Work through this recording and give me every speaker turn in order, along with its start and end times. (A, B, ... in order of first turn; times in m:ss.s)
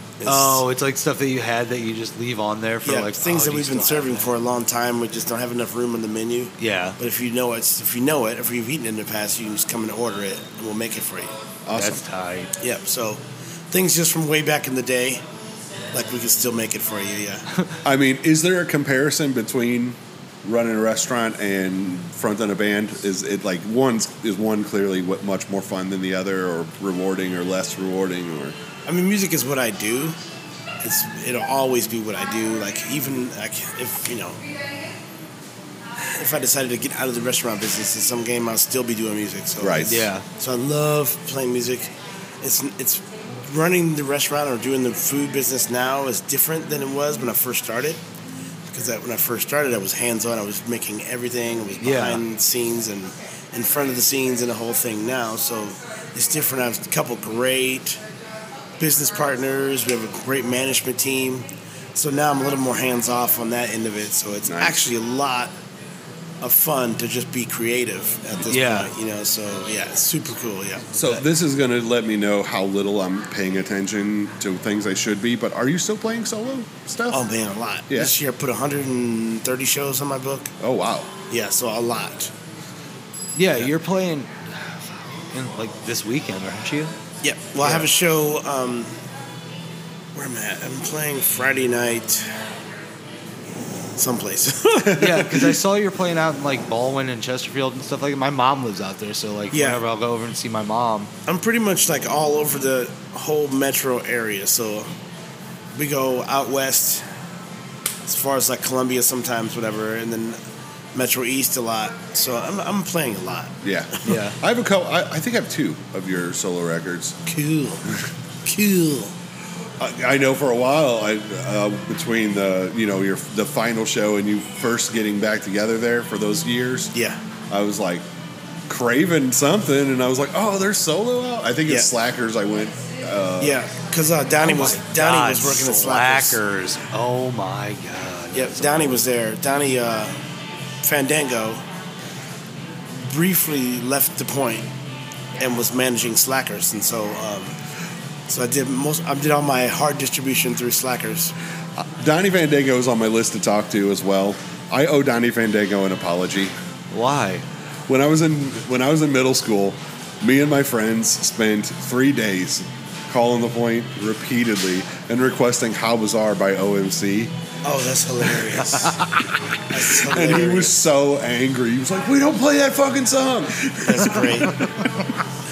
0:00.2-0:00.6 A
0:00.2-0:04.3 B
0:02.8-0:11.3 A
0:06.6-0:07.0 B
0:11.7-0:12.0 C
0:11.7-0:12.5 B
0:12.6-0:15.2 A
0:15.9-0:17.4 A
0:17.8-0:28.6 C
0:28.8-0:30.2 A
0:30.8-0:34.4 A
0:36.0-0:41.9 A
0:39.6-0:40.1 C
0:39.9-0:40.2 B
0:42.4-0:48.0 A
0:48.7-0:58.0 A
0:51.8-0:52.2 B
0:58.8-1:05.5 A
1:04.5-1:04.8 C
1:06.4-1:11.2 A
1:08.5-1:08.9 B
1:11.0-1:17.2 C
1:17.1-1:20.5 A
1:17.9-1:18.1 C
1:20.6-1:21.1 C
1:21.3-1:22.3 A
1:23.4-1:26.9 B
1:27.2-1:28.9 A
1:27.6-1:27.9 B
1:30.2-1:32.3 A
1:34.0-1:35.4 A
1:34.9-1:41.1 B
1:39.5-1:39.8 A
1:41.3-1:44.9 A
1:45.8-1:47.0 A
1:48.1-1:50.4 A
1:50.9-1:54.2 A
1:53.6-1:57.2 C
1:54.0-1:54.4 B
1:57.3-1:57.9 A
1:58.4-1:59.1 A
1:59.8-2:06.9 C
2:06.9-2:07.2 A
2:07.5-2:08.0 C
2:08.7-2:13.6 C
2:13.4-2:16.4 A
2:14.4-2:19.0 B
2:18.4-2:20.1 A
2:20.8-2:21.6 A
2:23.0-2:24.7 A
2:25.4-2:27.6 A
2:28.3-2:31.3 A
2:31.8-2:36.5 C
2:36.9-2:37.4 B
2:37.9-2:47.3 C
2:47.6-2:49.0 A
2:48.9-2:49.2 B
2:49.7-2:50.8 A
2:49.7-2:55.1 C
2:53.8-2:54.6 A